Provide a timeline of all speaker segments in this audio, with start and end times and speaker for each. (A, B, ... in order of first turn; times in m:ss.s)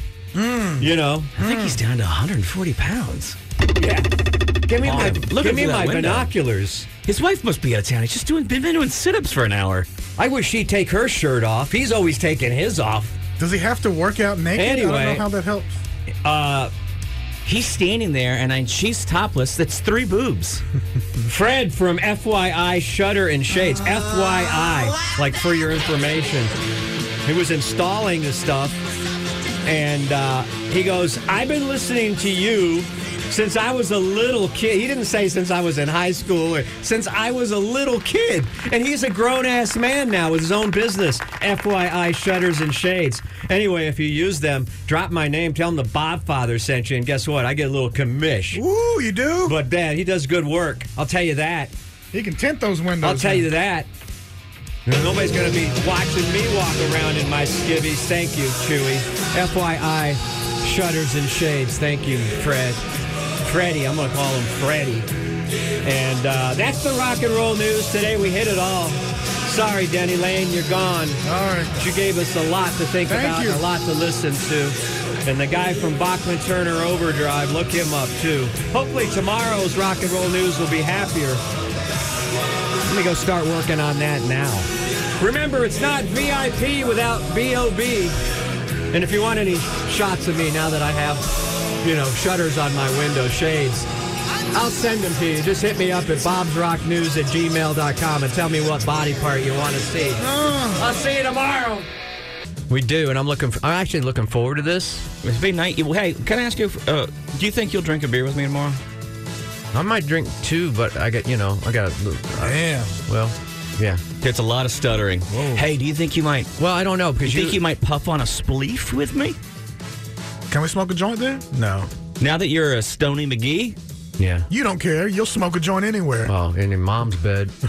0:00.3-0:01.8 A
0:00.8-0:01.3 B
0:01.4-0:03.4 C
0:03.8-0:04.1 B
0:04.7-0:06.9 B
0:04.8-0:06.3 C
0:07.0-0:09.9 C
0:10.2-0:13.2 B
0:13.4-0:15.8 A
0:14.6-0:15.3 B
0:16.2-0:16.7 B
0:17.4-0:20.6 C
0:21.3-0:26.5 B
0:27.3-0:28.8 B
0:29.6-0:48.6 B
0:48.5-0:49.6 A
0:49.5-0:51.7 B
0:52.1-0:53.5 A
0:53.0-0:53.9 B
0:54.9-1:02.8 B
1:03.4-1:05.1 B
1:05.8-1:11.2 B
1:11.2-1:11.8 A
1:11.8-1:21.4 B
1:13.1-1:13.6 A
1:22.8-1:28.2 B
1:28.9-1:31.3 B
1:31.8-1:33.9 B
1:34.5-1:41.9 B
1:40.2-1:40.8 A
1:42.7-1:45.1 B
1:45.2-1:48.8 C
1:49.7-1:54.0 B
1:52.4-1:53.0 A
1:54.2-1:56.5 C
1:55.3-1:55.6 A
1:56.6-1:57.6 B
1:57.2-1:59.4 C
2:00.5-2:01.9 A
2:02.2-2:03.8 C
2:04.2-2:04.5 B
2:04.5-2:06.3 A
2:06.3-2:07.5 B